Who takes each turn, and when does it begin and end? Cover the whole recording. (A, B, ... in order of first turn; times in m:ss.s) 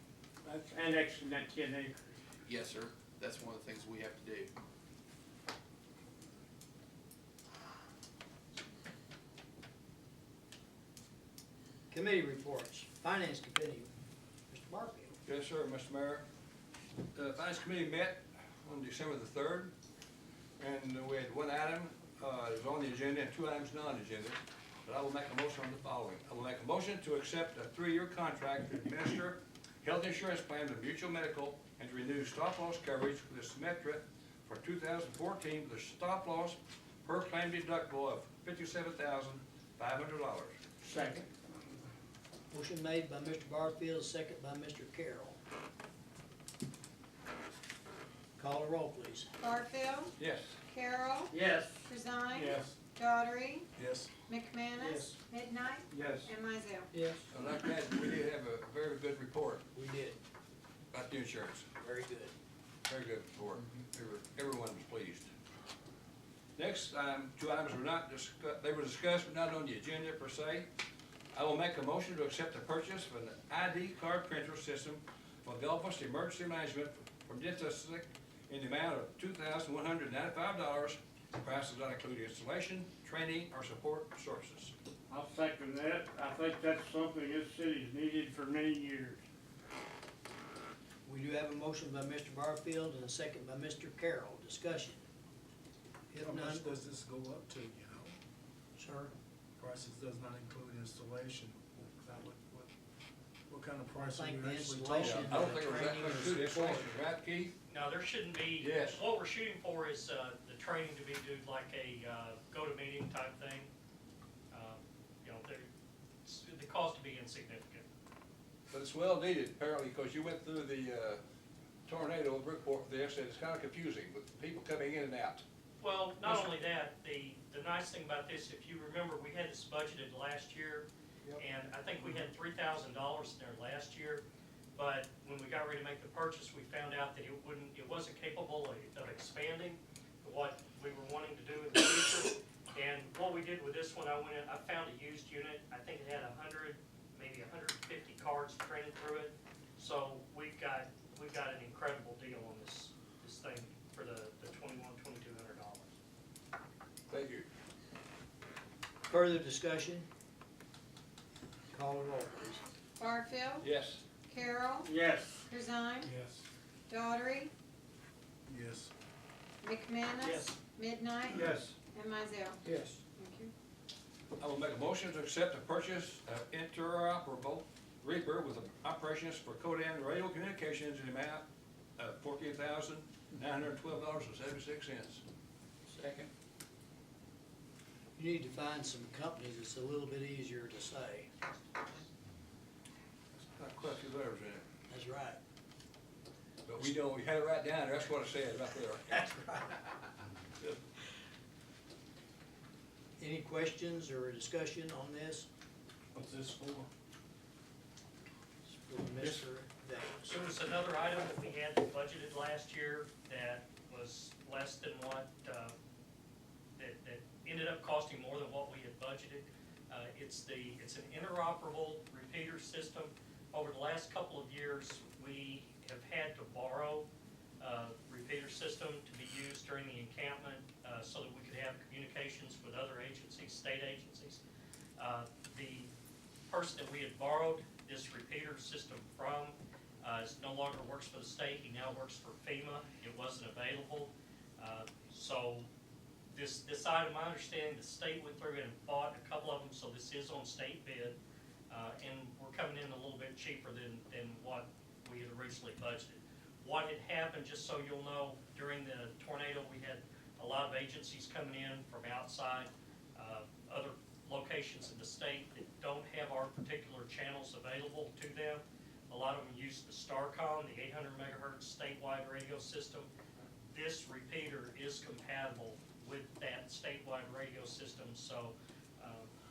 0:00.4-0:02.1 A
0:02.4-0:04.5 B
0:11.9-0:13.9 C
0:14.5-0:15.2 C
0:15.2-0:16.2 D
0:17.1-0:19.7 D
0:20.6-0:40.5 D
0:40.8-0:41.2 A
0:42.5-0:45.4 C
0:48.4-0:49.3 C
0:49.4-0:50.1 E
0:50.2-0:50.6 D
0:50.7-0:53.7 E
0:51.3-0:51.8 A
0:52.5-0:52.8 F
0:53.8-0:54.1 F
0:54.3-0:56.9 E
0:55.9-0:56.3 A
0:57.3-0:59.6 D
0:59.7-1:00.2 C
1:00.9-1:01.7 D
1:01.8-1:02.3 C
1:02.8-1:05.2 D
1:06.6-1:10.6 D
1:11.3-1:24.7 D
1:25.1-1:29.2 A
1:31.0-1:35.0 C
1:36.1-1:36.8 C
1:36.2-1:38.2 F
1:38.8-1:39.1 C
1:39.6-1:42.7 F
1:43.5-1:45.4 F
1:43.9-1:46.9 C
1:45.0-1:47.5 D
1:47.7-1:53.7 G
1:48.6-1:49.0 D
1:54.5-1:55.7 G
1:56.2-1:57.8 G
1:58.7-2:01.2 D
2:01.9-2:05.4 D
2:05.8-2:14.2 G
2:14.8-2:35.9 G
2:37.1-2:37.5 D
2:39.1-2:40.0 C
2:41.7-2:42.6 C
2:43.0-2:43.7 E
2:43.6-2:44.0 D
2:44.3-2:44.9 E
2:44.8-2:45.4 A
2:45.5-2:46.1 E
2:46.0-2:46.4 F
2:46.9-2:47.5 E
2:48.5-2:48.9 F
2:49.6-2:52.6 E
2:50.2-2:50.5 A
2:51.3-2:51.7 A
2:52.6-2:53.0 A
2:53.1-2:53.5 E
2:54.4-3:01.4 D
3:02.0-3:05.2 D
3:06.0-3:06.3 A
3:08.2-3:11.3 C
3:13.5-3:14.6 D
3:14.9-3:15.4 C
3:16.6-3:19.5 D
3:19.3-3:19.6 C
3:23.2-3:25.5 C
3:26.1-3:26.9 F
3:28.6-3:30.3 C
3:30.2-3:35.7 G
3:36.8-3:47.1 G
3:47.6-3:54.4 G
3:55.0-3:55.9 G
3:56.5-4:05.7 G
4:06.3-4:11.2 G
4:11.7-4:33.1 G
4:33.7-4:39.3 G